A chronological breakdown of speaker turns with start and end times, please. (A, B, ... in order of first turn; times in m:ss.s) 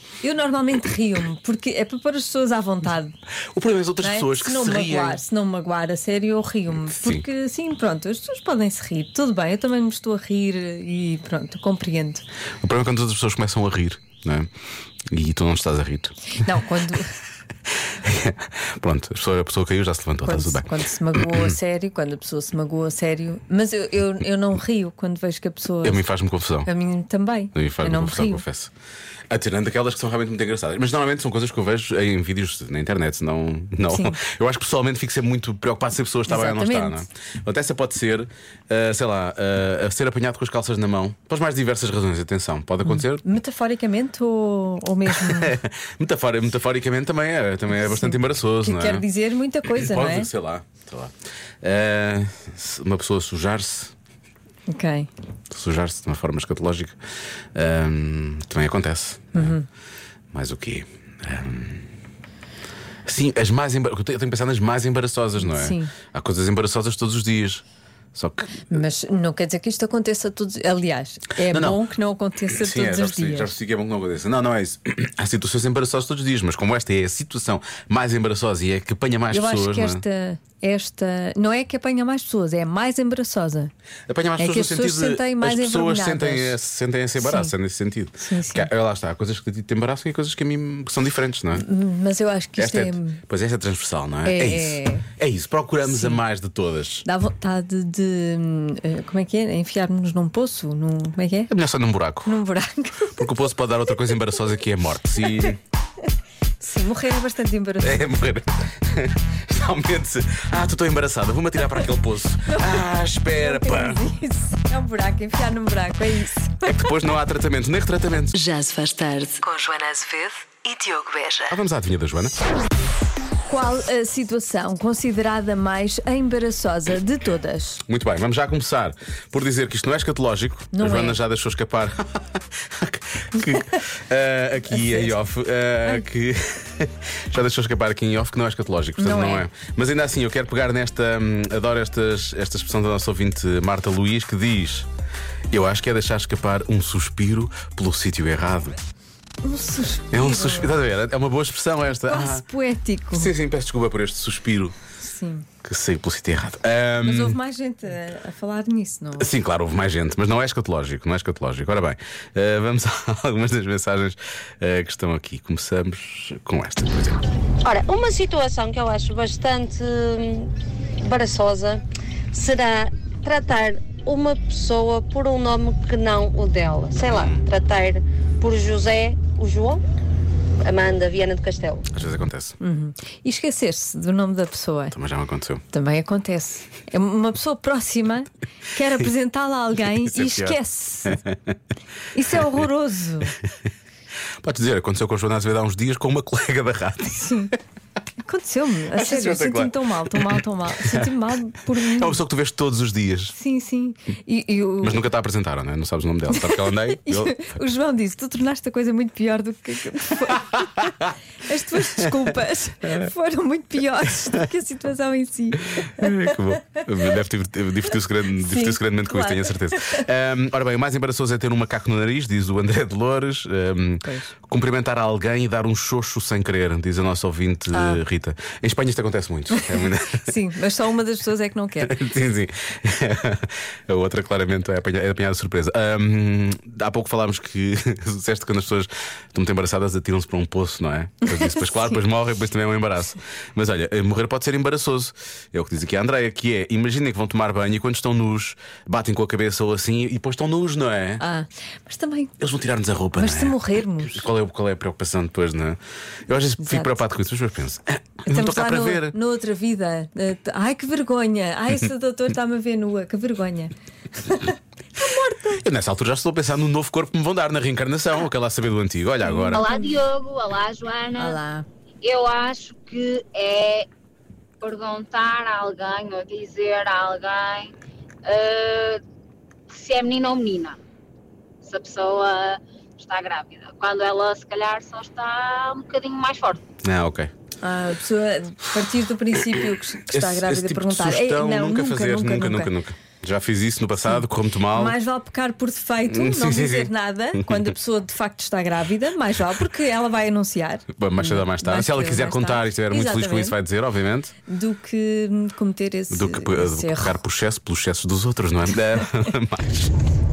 0:00.2-0:03.1 A
0:03.5-0:05.2 B
0:04.0-0:12.2 A
0:06.9-0:07.2 B
0:12.6-0:14.5 B
0:15.1-0:16.4 B
0:16.4-0:17.1 A
0:18.0-0:20.7 B
0:20.2-0:26.0 A
0:21.2-0:21.5 B
0:25.8-0:26.7 B
0:26.6-0:28.4 A
0:27.5-0:28.7 B
0:29.3-0:43.2 B
0:33.9-0:34.2 A
0:36.3-0:37.0 A
0:42.8-0:45.6 A
0:45.1-0:49.0 B
0:47.8-0:50.3 A
0:49.7-0:53.9 B
0:54.7-0:55.1 A
0:55.5-0:57.0 B
0:57.6-0:59.5 B
0:59.3-0:59.6 A
1:00.3-1:01.8 B
1:03.1-1:07.6 B
1:05.4-1:05.9 A
1:08.1-1:08.6 B
1:08.7-1:13.5 A
1:11.5-1:11.8 B
1:12.5-1:20.0 B
1:19.3-1:23.7 A
1:24.1-1:31.6 B
1:24.4-1:26.5 A
1:27.2-1:27.5 A
1:28.2-1:28.7 A
1:31.5-1:33.2 A
1:32.6-1:37.0 B
1:34.2-1:35.0 A
1:35.8-1:36.2 A
1:37.0-1:41.5 A
1:41.5-1:42.4 B
1:42.2-1:43.3 A
1:43.2-1:45.6 B
1:45.2-1:45.5 A
1:46.6-1:48.1 A
1:47.8-1:54.0 B
1:53.3-1:56.8 A
1:56.6-1:58.4 B
1:58.3-2:01.5 C
2:01.5-2:02.3 B
2:03.5-2:07.8 A
2:07.9-2:24.9 B
2:10.7-2:11.2 A
2:14.8-2:15.1 A
2:19.0-2:19.5 A
2:25.5-2:28.8 B
2:29.4-2:30.8 A
2:30.1-2:32.4 B
2:32.1-2:33.3 A
2:33.1-2:34.8 B
2:35.0-2:35.4 A
2:35.6-2:37.4 B
2:37.0-2:39.3 A
2:39.2-2:47.2 B
2:47.6-2:59.8 D
2:57.1-2:57.4 B
3:00.6-3:01.8 D
3:01.9-3:02.6 B
3:02.6-3:04.9 A
3:04.9-3:05.6 B
3:05.7-3:11.2 A
3:10.0-3:11.3 B
3:12.1-3:13.4 A
3:14.4-3:17.4 B
3:17.2-3:17.5 A
3:18.2-3:22.2 A
3:18.9-3:20.3 B
3:22.0-3:23.3 B
3:23.3-3:25.0 A
3:24.8-3:27.5 B
3:26.3-3:30.9 A
3:31.4-3:36.2 A
3:36.0-3:50.3 B
3:38.4-3:40.0 A
3:44.0-3:44.3 A
3:47.7-3:48.0 A
3:50.2-3:51.9 A
3:51.8-4:11.2 B
4:11.2-4:12.3 A
4:12.4-4:19.1 B
4:13.2-4:14.2 A
4:16.6-4:16.9 A
4:18.3-4:25.5 A
4:25.6-4:29.7 B
4:29.2-4:30.0 A
4:29.5-4:31.4 E
4:31.1-4:31.6 A
4:32.0-4:33.9 E
4:34.6-4:37.7 E
4:38.2-4:39.0 E
4:39.7-4:40.8 E
4:41.6-4:46.6 E
4:46.8-4:47.3 B
4:47.6-4:52.7 A
4:50.1-4:55.0 B
4:54.7-5:03.6 A
4:56.1-4:57.5 B
5:01.0-5:04.3 B
5:04.5-5:07.2 A
5:06.1-5:09.9 B